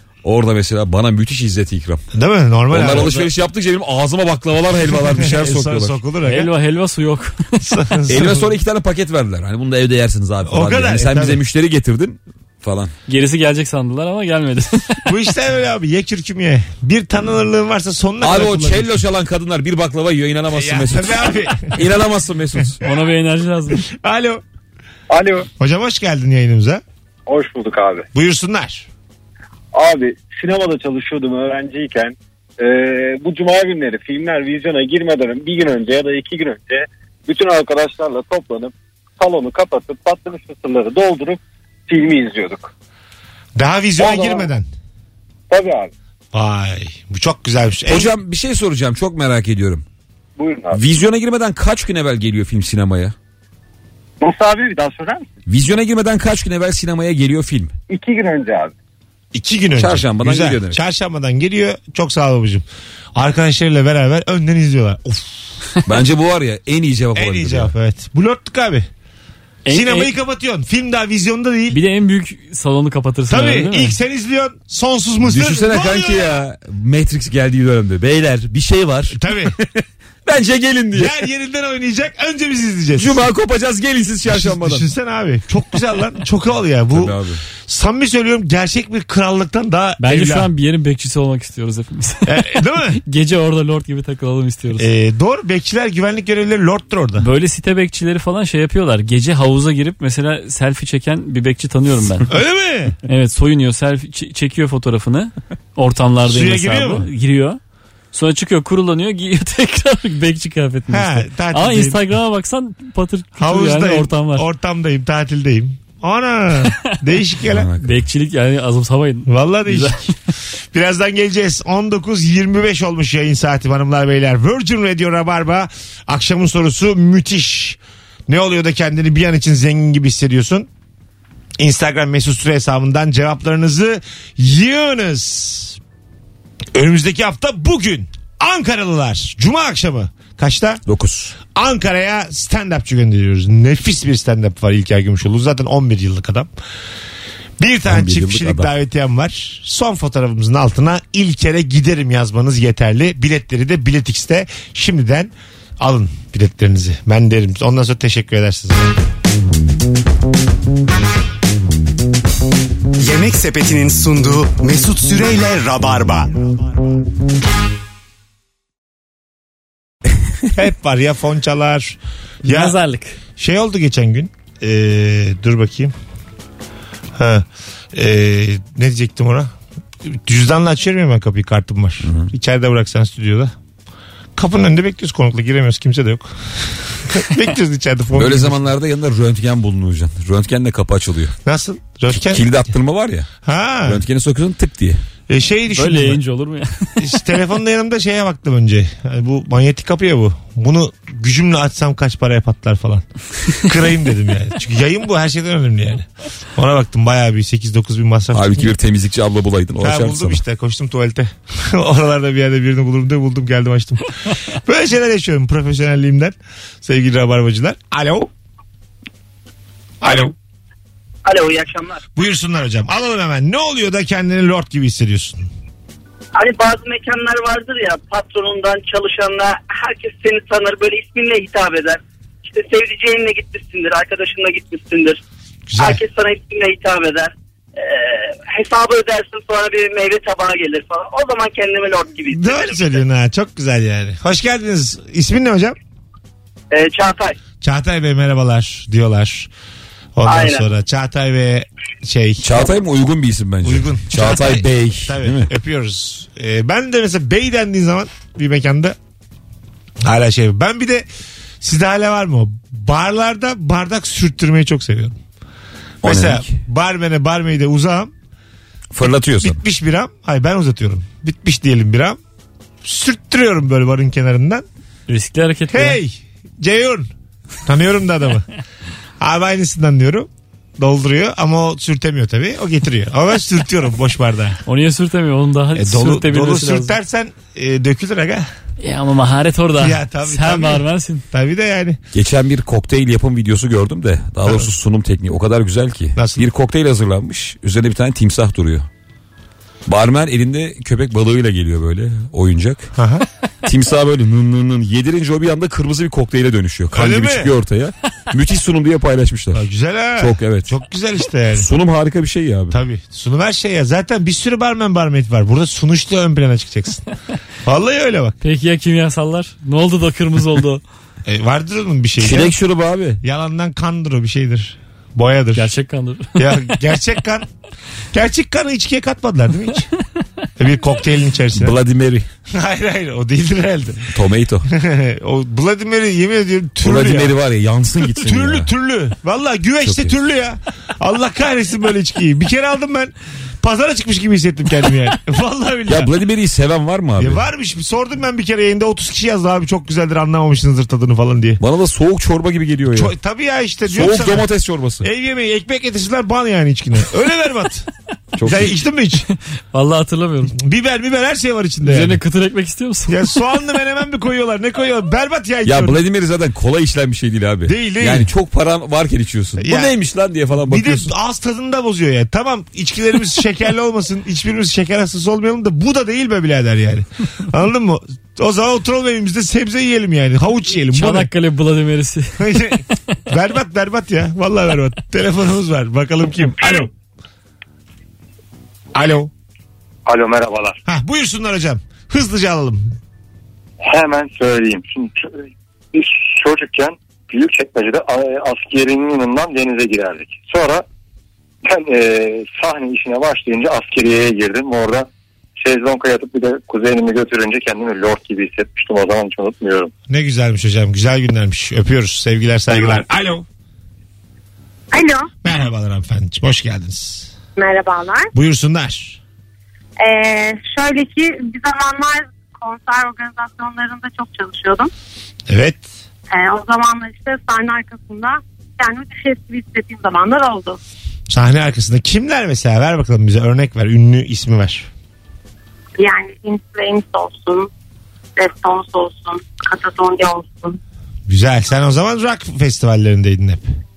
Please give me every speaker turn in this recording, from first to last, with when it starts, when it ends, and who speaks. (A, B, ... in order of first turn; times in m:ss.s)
0:00.2-0:02.0 A
0:02.1-0:03.3 B
0:02.7-0:06.0 A
0:04.9-0:06.5 B
0:06.3-0:07.7 C
0:07.6-0:08.6 B
0:08.1-0:12.9 A
0:10.4-0:11.4 B
0:13.1-0:15.0 C
0:15.1-0:19.0 B
0:18.2-0:22.8 A
0:20.5-0:21.8 B
0:22.8-0:23.8 C
0:23.7-0:24.4 B
0:25.1-0:25.5 D
0:25.6-0:26.8 B
0:27.3-0:28.1 D
0:28.2-0:28.9 B
0:29.7-0:42.7 D
0:43.6-0:44.7 B
0:44.0-0:44.5 D
0:45.5-0:45.9 D
0:46.3-0:48.1 B
0:47.9-0:49.8 A
0:50.4-0:50.8 D
0:50.7-0:53.2 A
0:54.2-0:55.3 D
0:55.5-0:57.7 A
0:57.9-0:58.7 D
0:59.3-1:05.4 B
0:59.8-1:00.8 A
1:05.8-1:07.7 A
1:07.2-1:08.9 B
1:09.6-1:10.1 C
1:09.7-1:11.8 B
1:11.7-1:14.0 C
1:13.3-1:16.4 B
1:15.2-1:21.2 A
1:19.1-1:19.6 B
1:20.9-1:23.2 B
1:23.0-1:24.9 A
1:24.2-1:30.5 B
1:26.9-1:27.4 A
1:30.0-1:34.9 C
1:32.3-1:33.0 B
1:34.8-1:37.3 B
1:37.2-1:42.3 C
1:42.3-1:43.0 B
1:43.1-1:47.6 C
1:46.2-1:47.1 B
1:48.1-1:54.5 C
1:50.9-1:52.1 B
1:53.4-1:57.7 B
1:56.6-1:57.0 C
1:57.5-1:57.9 A
1:57.8-2:00.1 C
1:59.3-2:00.1 B
2:00.7-2:10.7 B
2:11.6-2:15.8 B
2:16.7-2:20.8 B
2:20.9-2:21.4 A
2:21.5-2:26.5 B
2:27.6-2:39.0 B
2:27.9-2:28.7 A
2:43.0-2:46.6 E
2:50.5-2:52.8 B
2:52.4-2:53.2 C
2:53.4-2:55.9 B
2:57.2-2:59.5 B
3:00.0-3:03.5 B
3:02.0-3:02.3 A
3:04.4-3:08.7 B
3:08.1-3:11.4 A
3:11.4-3:12.6 B
3:12.3-3:13.3 A
3:13.4-3:14.0 B
3:13.9-3:15.0 A
3:15.3-3:16.2 B
3:15.8-3:17.0 C
3:17.0-3:28.8 B
3:28.3-3:30.4 A
3:29.8-3:38.3 B
3:40.0-3:40.4 B
3:41.2-3:42.0 F
3:42.2-3:45.5 B
3:46.4-3:55.2 F
3:55.7-3:56.0 B
3:55.8-4:03.0 F
4:02.3-4:05.8 B
4:06.7-4:07.4 F
4:07.6-4:09.5 B
4:10.2-4:12.6 B
4:10.2-4:10.6 F
4:12.4-4:15.5 A
4:13.6-4:19.0 B
4:20.0-4:21.1 B
4:21.6-4:25.2 B
4:26.0-4:26.6 A
4:26.0-4:28.1 B
4:28.9-4:29.6 A
4:29.4-4:32.2 B
4:32.8-4:34.6 B
4:35.1-4:36.0 C
4:35.7-4:37.1 B
4:37.6-4:38.5 B
4:39.2-4:44.6 B
4:44.7-4:47.0 C
4:45.8-4:48.5 B
4:48.8-4:51.2 C
4:49.8-4:52.0 B
4:52.1-4:58.9 A
4:56.2-4:56.5 B
4:59.9-5:02.9 A
5:03.0-5:03.2 B
5:03.6-5:09.7 A
5:06.9-5:07.5 B
5:09.5-5:11.7 B
5:10.2-5:10.7 A
5:11.6-5:12.8 A
5:12.7-5:17.0 B
5:17.6-5:18.4 B
5:18.4-5:20.8 C
5:21.3-5:22.5 B
5:22.2-5:23.2 A
5:23.2-5:25.7 B
5:25.6-5:26.7 C
5:26.4-5:27.5 B
5:28.1-5:29.9 B
5:30.6-5:31.8 B
5:31.5-5:32.3 A
5:32.5-5:34.1 B
5:34.1-5:34.7 A
5:34.7-5:37.4 B
5:36.8-5:38.7 A
5:38.1-5:46.1 B
5:39.8-5:40.1 A
5:45.9-5:47.4 A
5:47.2-5:51.6 B
5:51.6-5:53.1 A
5:52.9-5:54.5 B
5:53.9-5:55.1 A
5:55.0-5:57.9 B
5:58.4-5:58.7 A
5:58.4-5:59.3 B
5:59.7-6:00.6 C
6:00.6-6:02.2 B
6:01.8-6:03.2 C
6:03.1-6:06.0 B
6:05.6-6:11.1 A
6:07.7-6:08.3 B
6:09.6-6:09.9 B
6:10.7-6:21.3 B
6:20.9-6:22.7 C
6:22.4-6:26.9 B
6:28.9-6:29.3 B
6:30.1-6:30.8 G
6:30.9-6:33.0 B
6:33.8-6:40.9 G
6:41.6-6:45.1 G
6:45.6-6:49.9 G
6:50.1-6:53.4 B
6:54.9-6:55.3 H
6:55.4-6:57.3 B
6:57.6-6:58.3 H
6:58.3-6:59.2 B
7:00.0-7:04.9 H
7:05.5-7:05.8 B
7:06.3-7:10.8 H
7:11.3-7:14.9 B
7:16.0-7:17.7 H
7:18.4-7:20.8 H
7:21.3-7:23.6 B